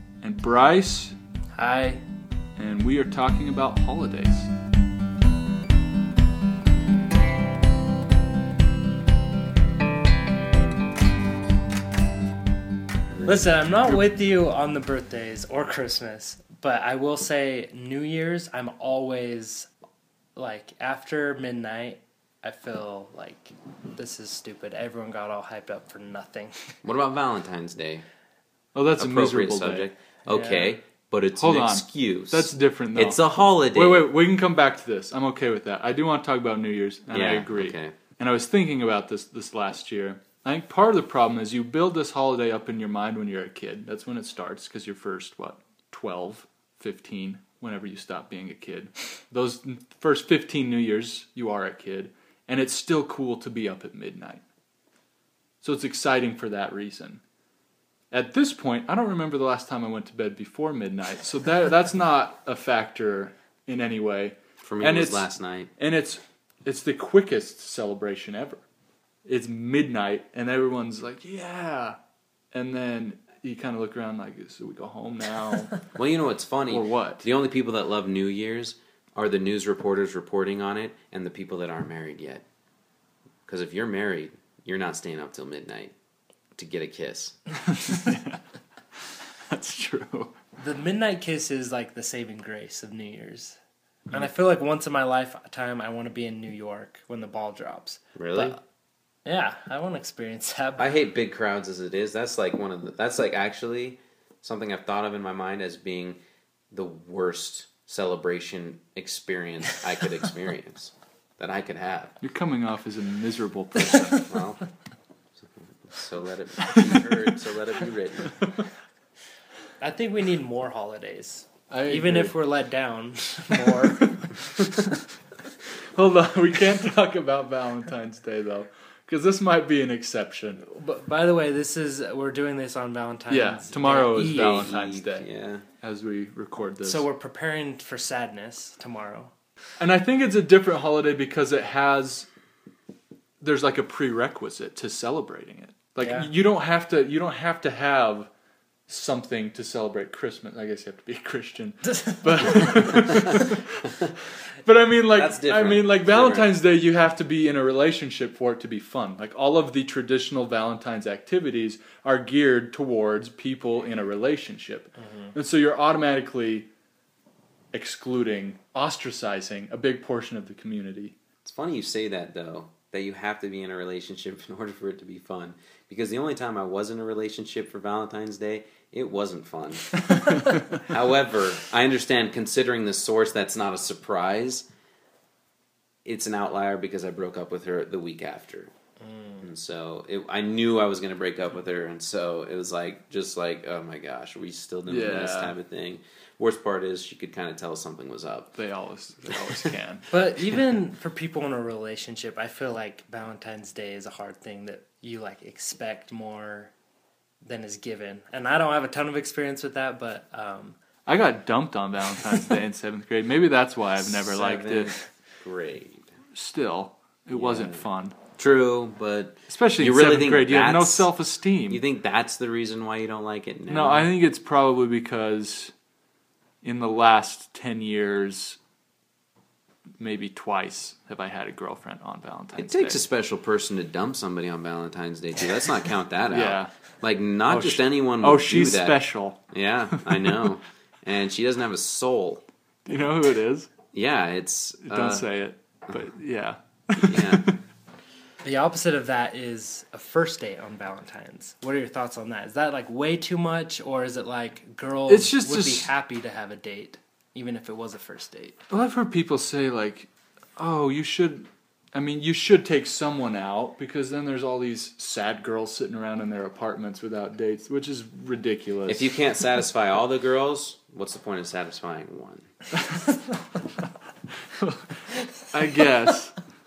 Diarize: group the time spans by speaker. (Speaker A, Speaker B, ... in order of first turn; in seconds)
Speaker A: 0.2-1.2, 2.6-4.5, 28.8-29.9, 31.4-54.4, 55.6-57.2, 58.1-68.6, 69.3-72.0, 72.5-75.8, 76.7-77.3, 87.7-88.4, 89.5-90.3, 112.2-114.2, 116.7-117.1, 121.7-122.3, 123.8-124.6, 126.0-130.7, 133.3-135.3, 135.8-137.1, 139.8-142.3, 143.4-148.3, 148.9-166.7, 167.7-171.2, 180.0-180.8, 194.9-195.6, 198.6-200.1, 211.1-215.0, 216.3-218.2, 219.5-221.8, 223.7-225.7, 226.6-228.6, 230.0-233.0, 236.3-236.7, 237.5-240.3, 242.9-243.7, 244.9-247.6, 255.1-255.9, 258.7-269.1, 272.8-273.1, 274.6-274.9, 275.5-276.4
Speaker B: 1.6-2.0, 13.2-19.7, 20.4-26.5, 30.3-30.8, 90.6-93.6, 94.1-98.6, 99.2-100.9, 119.8-124.9, 130.7-134.8, 136.8-139.3, 146.0-146.3, 189.0-189.4, 200.1-206.7, 207.4-210.8, 248.4-258.6
Speaker C: 13.1-13.5, 26.8-28.1, 29.0-34.1, 37.1-38.0, 64.6-65.7, 75.9-82.5, 83.5-85.9, 86.5-87.4, 98.2-98.6, 100.8-106.2, 106.7-112.2, 114.3-114.6, 115.4-118.3, 134.1-135.7, 155.1-156.6, 171.4-180.0, 180.7-184.7, 186.1-188.7, 189.4-198.6, 214.0-216.1, 217.3-217.9, 218.4-221.1, 221.7-224.1, 232.6-242.4, 243.9-245.3, 247.1-247.4, 268.9-272.5